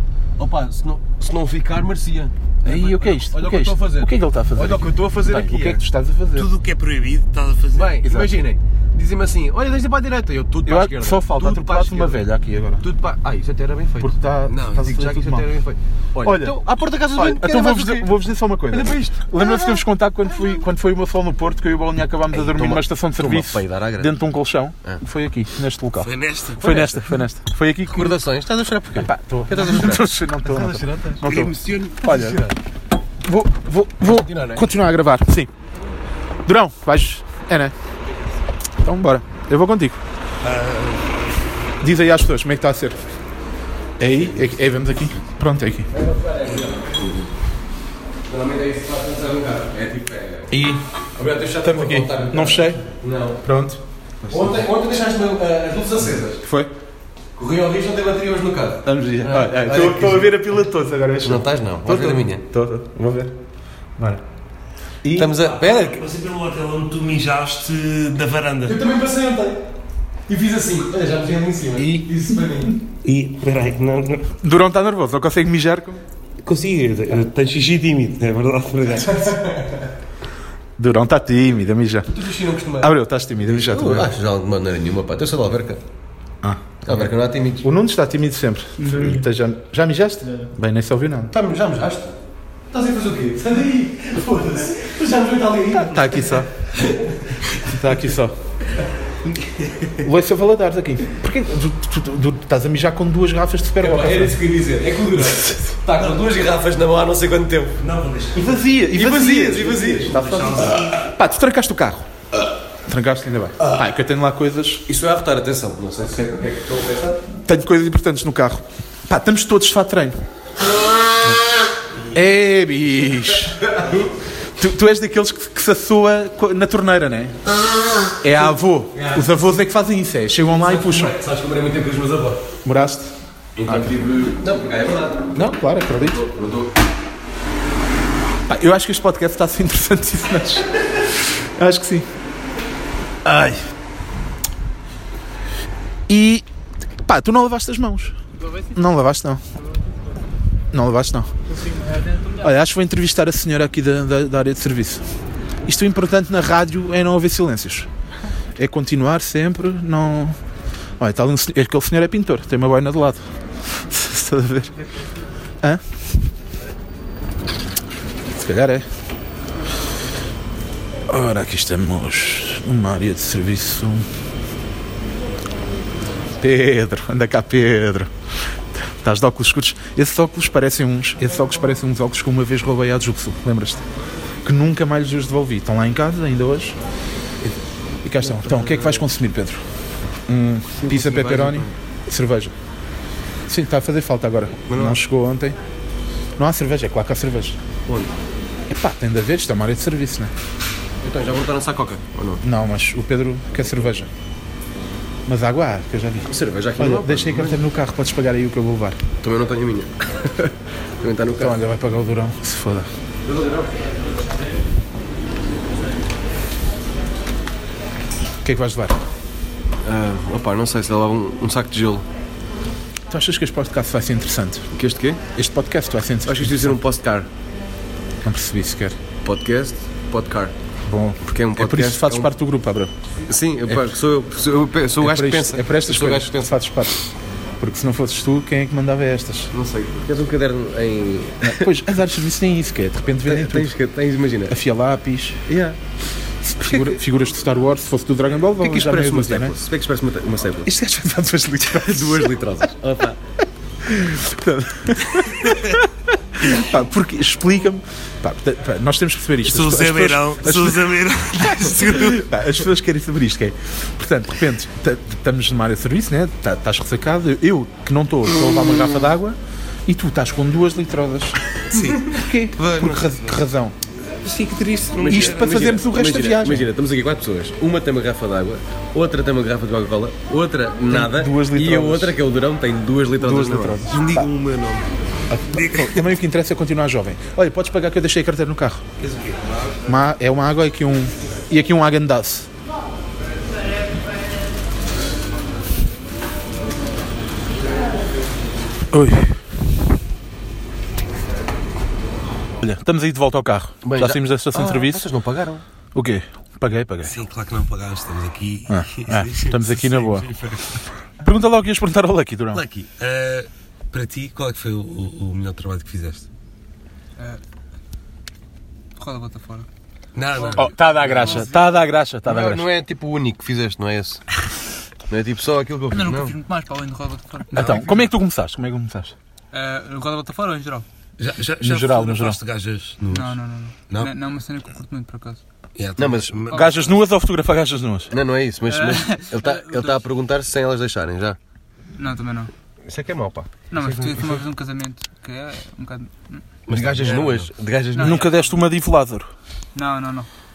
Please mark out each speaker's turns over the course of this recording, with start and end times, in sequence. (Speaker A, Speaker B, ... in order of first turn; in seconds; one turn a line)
Speaker A: 0.4-5.8
Speaker B: 2.6-6.5
Speaker C: 6.3-8.0
Speaker A: 7.7-12.3
Speaker B: 8.0-8.4
Speaker B: 10.7-12.8
Speaker A: 12.8-18.1
Speaker B: 14.0-15.5
Speaker C: 14.5-14.9
Speaker B: 16.2-16.6
Speaker B: 17.1-28.2
Speaker A: 18.7-20.6
Speaker A: 22.3-24.2
Speaker C: 26.0-26.7
Speaker A: 26.6-27.1
Speaker A: 27.9-31.2
Speaker B: 29.0-32.4
Speaker C: 31.2-32.1
Speaker A: 32.0-32.6
Speaker B: 33.2-35.5
Speaker A: 34.0-34.8
Speaker B: 36.5-37.7
Speaker B: 38.8-40.0
Speaker C: 40.4-41.1
Speaker B: 41.8-43.0
Speaker B: 44.0-45.9
Speaker A: 45.9-47.1
Speaker C: 46.5-46.7
Speaker A: 48.3-50.5
Speaker B: 50.5-50.8
Speaker A: 51.2-53.4
Speaker B: 51.6-52.8
Speaker B: 53.4-53.8
Speaker A: 54.3-56.4
Speaker B: 56.4-56.7
Speaker A: 57.4-60.3
Speaker B: 58.9-63.3
Speaker A: 61.2-62.5
Speaker B: 65.0-65.3
Speaker A: 65.1-66.0
Speaker C: 65.4-68.8
Speaker A: 68.7-69.6
Speaker A: 70.3-72.8
Speaker B: 71.8-72.1
Speaker C: 73.0-74.3
Speaker B: 74.4-76.0
Speaker C: 76.4-79.4
Speaker A: 79.1-79.8
Speaker B: 80.8-82.1
Speaker A: 82.1-82.9
Speaker B: 82.8-84.1
Speaker A: 83.5-85.8
Speaker B: 86.4-91.3
Speaker A: 86.8-87.7
Speaker D: 88.8-89.2
Speaker A: 91.3-92.2
Speaker A: 92.7-97.4
Speaker B: 95.7-96.5
Speaker B: 97.6-98.3
Speaker B: 100.0-104.4
Speaker A: 103.8-107.8
Speaker B: 105.2-105.8
Speaker C: 107.8-108.6
Speaker B: 108.3-112.1
Speaker A: 108.9-110.1
Speaker C: 110.0-111.1
Speaker B: 112.9-114.8
Speaker A: 114.9-117.2
Speaker B: 117.5-120.2
Speaker B: 122.1-123.6
Speaker B: 124.6-127.4
Speaker B: 128.2-131.2
Speaker A: 128.9-129.3
Speaker A: 130.6-132.4
Speaker B: 132.7-133.1
Speaker A: 133.6-135.5
Speaker B: 133.7-133.9
Speaker B: 135.3-136.2
Speaker A: 136.1-136.7
Speaker B: 138.5-140.7
Speaker B: 141.6-142.1
Speaker B: 143.2-143.6
Speaker B: 146.1-146.4
Speaker B: 147.0-148.2
Speaker D: 148.4-148.7
Speaker B: 148.7-149.4
Speaker B: 150.7-151.3
Speaker D: 151.5-152.5
Speaker B: 152.4-155.0
Speaker B: 155.7-157.9
Speaker B: 158.6-160.4
Speaker B: 161.0-163.2
Speaker B: 163.8-164.8
Speaker B: 168.3-168.8
Speaker B: 171.1-174.1
Speaker B: 176.4-178.1
Speaker B: 178.8-183.8
Speaker B: 184.4-186.8
Speaker B: 188.0-189.6
Speaker A: 188.2-189.1
Speaker B: 190.3-192.5
Speaker A: 190.7-191.7
Speaker B: 193.5-195.6
Speaker A: 194.7-195.0
Speaker B: 196.4-197.6
Speaker A: 197.9-198.2
Speaker B: 198.7-200.3
Speaker A: 201.0-202.4
Speaker B: 202.4-204.1
Speaker B: 205.3-209.0
Speaker A: 206.3-207.6
Speaker A: 209.2-211.6
Speaker B: 211.3-212.9
Speaker A: 213.3-213.8
Speaker B: 218.4-219.0
Speaker A: 219.8-222.1
Speaker B: 223.1-224.7
Speaker A: 224.7-225.2
Speaker B: 225.4-226.8
Speaker A: 226.2-227.3
Speaker B: 228.2-229.0
Speaker A: 229.2-230.5
Speaker B: 230.9-232.9
Speaker A: 231.2-232.3
Speaker A: 233.3-236.5
Speaker B: 235.0-236.9
Speaker B: 237.6-239.5
Speaker A: 239.5-241.7
Speaker B: 241.4-243.7
Speaker A: 243.3-244.6
Speaker B: 244.5-245.4
Speaker A: 245.5-245.8
Speaker B: 246.4-249.6
Speaker A: 246.6-247.0
Speaker A: 248.6-250.7
Speaker B: 250.7-252.7
Speaker A: 251.8-253.2
Speaker B: 253.8-260.9
Speaker C: 255.4-255.8
Speaker C: 259.4-262.3
Speaker B: 261.7-271.4
Speaker C: 271.7-273.4
Speaker B: 272.1-273.8
Speaker C: 274.2-275.7
Speaker A: 275.0-283.8
Speaker B: 275.0-276.7
Speaker B: 280.9-282.2
Speaker B: 283.2-284.3
Speaker C: 283.9-284.9
Speaker B: 285.3-288.8
Speaker C: 285.5-286.2
Speaker C: 289.0-289.7
Speaker B: 289.9-292.5
Speaker B: 298.9-299.4
Speaker B: 302.6-305.1
Speaker A: 303.8-305.6
Speaker B: 305.9-307.1
Speaker C: 307.1-310.8
Speaker B: 308.7-310.3
Speaker B: 311.2-312.6
Speaker C: 312.6-316.3
Speaker D: 317.2-317.4
Speaker D: 319.0-319.7
Speaker C: 320.1-321.3
Speaker D: 320.4-321.8
Speaker B: 320.5-322.7
Speaker A: 322.2-324.2
Speaker A: 325.1-326.4
Speaker D: 325.9-328.0
Speaker B: 327.5-329.1
Speaker C: 327.5-327.8
Speaker D: 329.5-330.9
Speaker C: 331.2-333.3
Speaker B: 331.6-332.4
Speaker D: 333.1-335.4
Speaker C: 335.8-336.7
Speaker A: 336.0-336.4
Speaker D: 336.5-337.0
Speaker B: 336.5-338.1
Speaker A: 338.1-341.4
Speaker D: 338.6-340.1
Speaker D: 341.9-342.5
Speaker A: 342.9-344.4
Speaker D: 343.7-346.5
Speaker A: 346.7-348.3
Speaker C: 346.8-347.5
Speaker D: 347.9-348.7
Speaker B: 348.0-349.3
Speaker D: 349.7-350.3